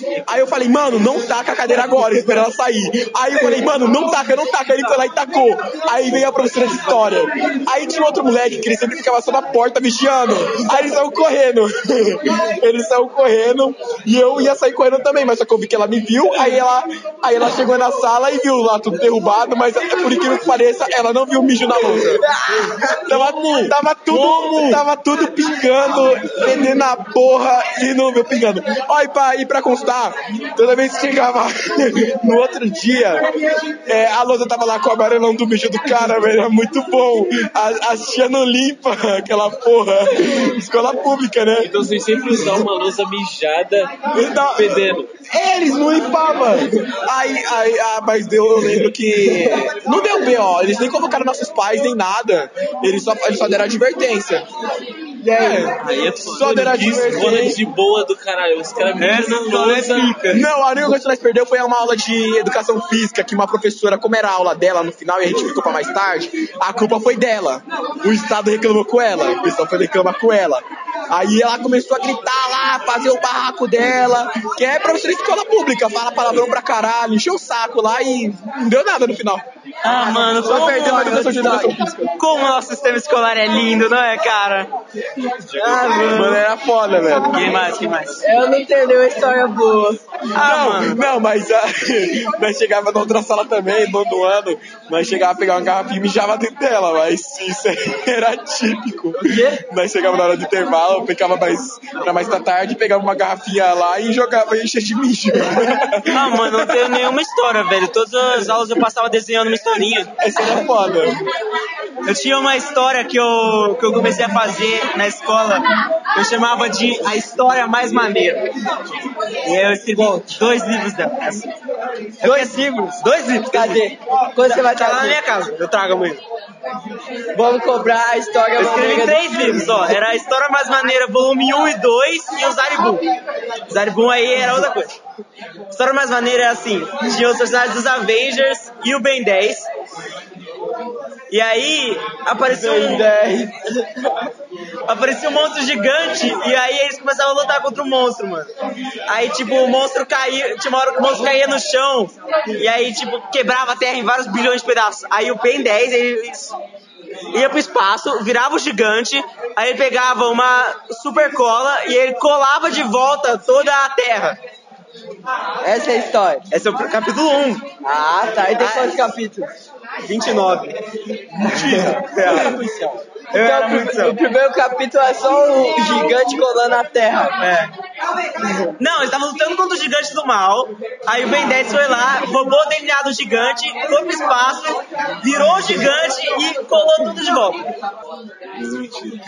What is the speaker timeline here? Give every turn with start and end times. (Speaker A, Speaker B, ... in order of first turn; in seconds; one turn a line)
Speaker A: 0.3-22.3
Speaker B: 21.9-23.2
Speaker A: 23.1-33.3
Speaker C: 24.1-24.6
Speaker A: 33.9-41.7
Speaker D: 41.6-45.1
Speaker A: 42.4-42.7
Speaker A: 44.1-54.5
Speaker B: 55.2-55.7
Speaker A: 55.3-57.6
Speaker D: 55.8-60.3
Speaker C: 59.0-60.5
Speaker A: 60.3-79.5
Speaker C: 79.8-81.2
Speaker B: 80.0-81.8
Speaker A: 80.0-82.2
Speaker C: 82.2-84.7
Speaker C: 85.5-86.4
Speaker B: 85.6-86.4
Speaker A: 86.1-87.5
Speaker C: 87.3-88.3
Speaker B: 88.2-90.0
Speaker C: 90.3-91.0
Speaker A: 90.4-107.1
Speaker B: 99.2-99.6
Speaker C: 106.1-110.1
Speaker A: 110.2-111.2
Speaker C: 112.0-118.5
Speaker C: 119.4-121.5
Speaker B: 119.9-120.4
Speaker C: 122.2-126.2
Speaker B: 122.2-125.2
Speaker B: 127.3-129.8
Speaker C: 128.6-133.0
Speaker C: 133.7-135.0
Speaker C: 135.7-139.7
Speaker C: 141.3-143.1
Speaker B: 142.5-144.1
Speaker C: 144.9-148.5
Speaker C: 149.1-156.6
Speaker C: 157.3-164.4
Speaker B: 165.6-166.4
Speaker C: 166.5-167.7
Speaker B: 167.8-169.5
Speaker C: 168.6-169.1
Speaker C: 170.1-170.8
Speaker A: 171.3-173.1
Speaker C: 172.0-172.6
Speaker C: 173.3-174.2
Speaker B: 173.3-177.4
Speaker C: 177.4-177.7
Speaker C: 178.8-187.6
Speaker D: 188.7-189.1